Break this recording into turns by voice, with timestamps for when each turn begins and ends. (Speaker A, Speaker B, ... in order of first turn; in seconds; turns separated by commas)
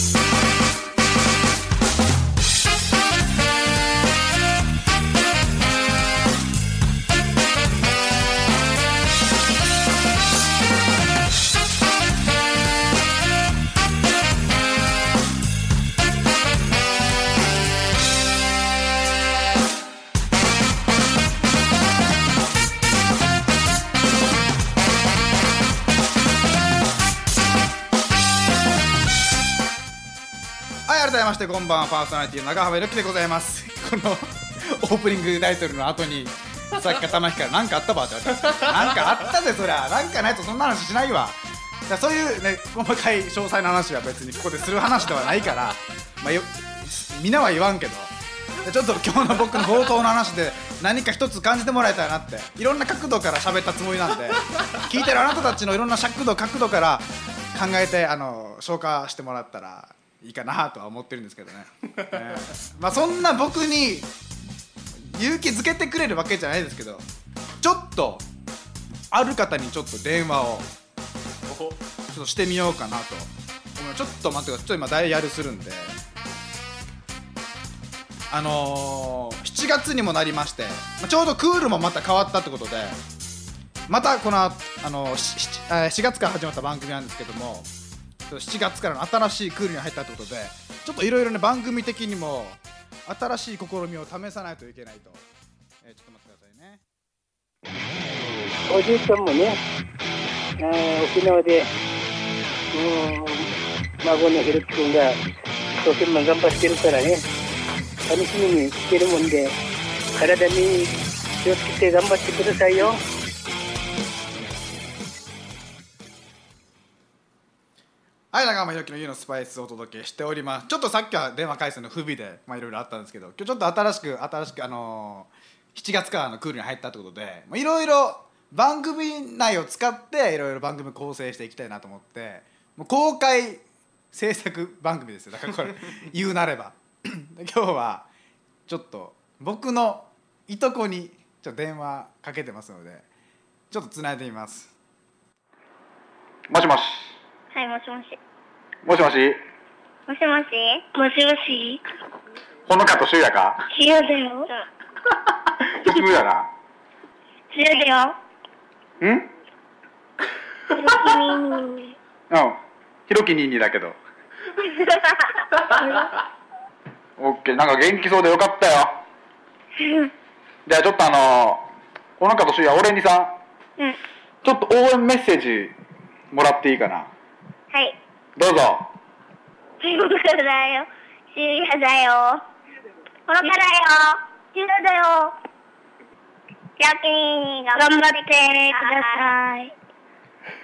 Speaker A: 30.9-64.1, Speaker A: 65.0-67.0, Speaker A: 67.6-68.2, Speaker A: 69.1-70.7, Speaker A: 72.1-75.9, Speaker A: 78.3-83.0, Speaker A: 83.9-87.7, Speaker A: 88.3-95.2, Speaker A: 95.8-96.8, Speaker B: 98.7-99.6, Speaker B: 100.6-101.7, Speaker B: 102.7-103.5, Speaker B: 104.0-105.1, Speaker B: 105.8-107.2, Speaker B: 108.1-109.5, Speaker B: 110.2-113.0, Speaker A: 118.3-133.6, Speaker A: 134.1-138.1, Speaker A: 138.7-143.0, Speaker A: 143.7-144.7, Speaker A: 146.5-147.1, Speaker C: 147.5-148.2, Speaker A: 148.8-149.4, Speaker C: 150.1-151.8, Speaker A: 152.7-153.7, Speaker C: 153.7-154.5, Speaker A: 155.4-156.5, Speaker C: 157.5-158.1, Speaker A: 159.0-159.3, Speaker C: 160.7-161.9, Speaker A: 162.3-164.0, Speaker C: 164.8-165.7, Speaker A: 167.2-168.9, Speaker C: 169.8-170.1, Speaker A: 170.7-171.6, Speaker A: 172.2-173.3, Speaker A: 174.4-175.7, Speaker A: 176.3-177.1, Speaker A: 178.3-178.9, Speaker C: 179.8-182.4, Speaker C: 183.3-185.3, Speaker C: 186.8-189.7